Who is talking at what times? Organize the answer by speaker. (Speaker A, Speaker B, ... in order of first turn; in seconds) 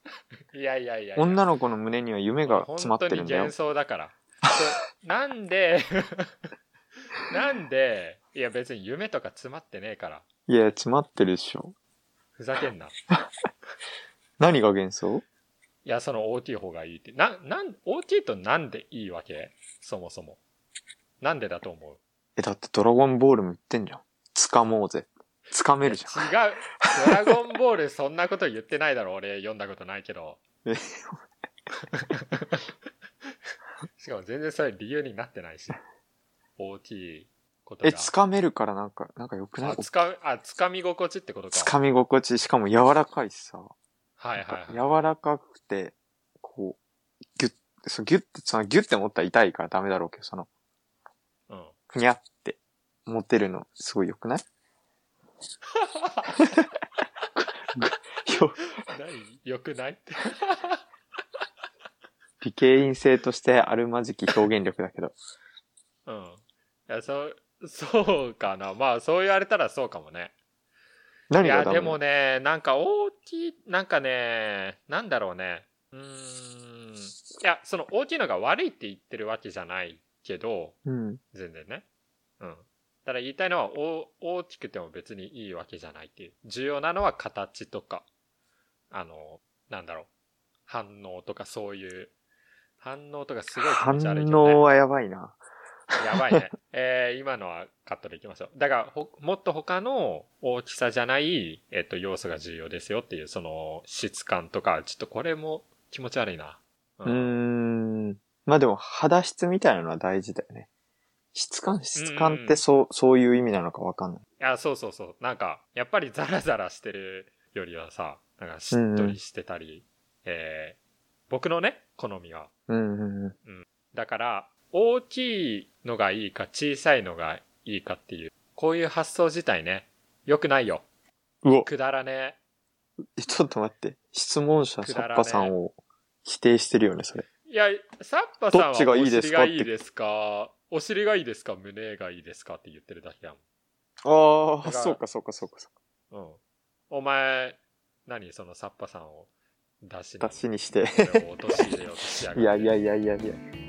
Speaker A: 0.5-1.4, 2.5-6.3, 7.2-10.2, 12.4-12.9, 15.8-20.4, 21.2-22.0, 25.8-30.4, 31.9-32.6, 34.0-35.8, 36.6-38.1, 39.6-41.7, 44.2-45.0, 51.5-51.7, 55.8-56.4, 58.8-60.8, 66.0-70.3, 71.4-80.8, 81.3-81.8, 82.4-88.0, 88.9-90.1, 90.7-92.1, 92.8-94.6, 96.0-107.3, 111.9-112.6, 114.4-120.8, 121.3-122.5, 123.4-130.8, 131.6-132.4, 134.8-135.5, 137.5-143.4, 144.6-145.0, 146.1-149.3, 149.8-152.8
Speaker B: 1.1-3.5, 10.5-11.7, 14.4-15.2, 22.4-26.3, 26.8-27.3, 30.6-31.2, 37.8-39.9, 41.5-43.7, 44.4-46.8, 47.4-50.5, 51.9-54.4, 57.7-58.6, 62.4-65.2, 71.3-72.0, 80.8-81.2, 93.5-95.4, 95.9-96.4, 107.0-110.7, 111.3-114.2, 118.7-119.2, 122.7-123.3, 131.4-131.7, 133.2-135.7, 136.2-137.2, 138.5-139.7, 144.0-145.7, 150.2-151.2, 152.3-153.4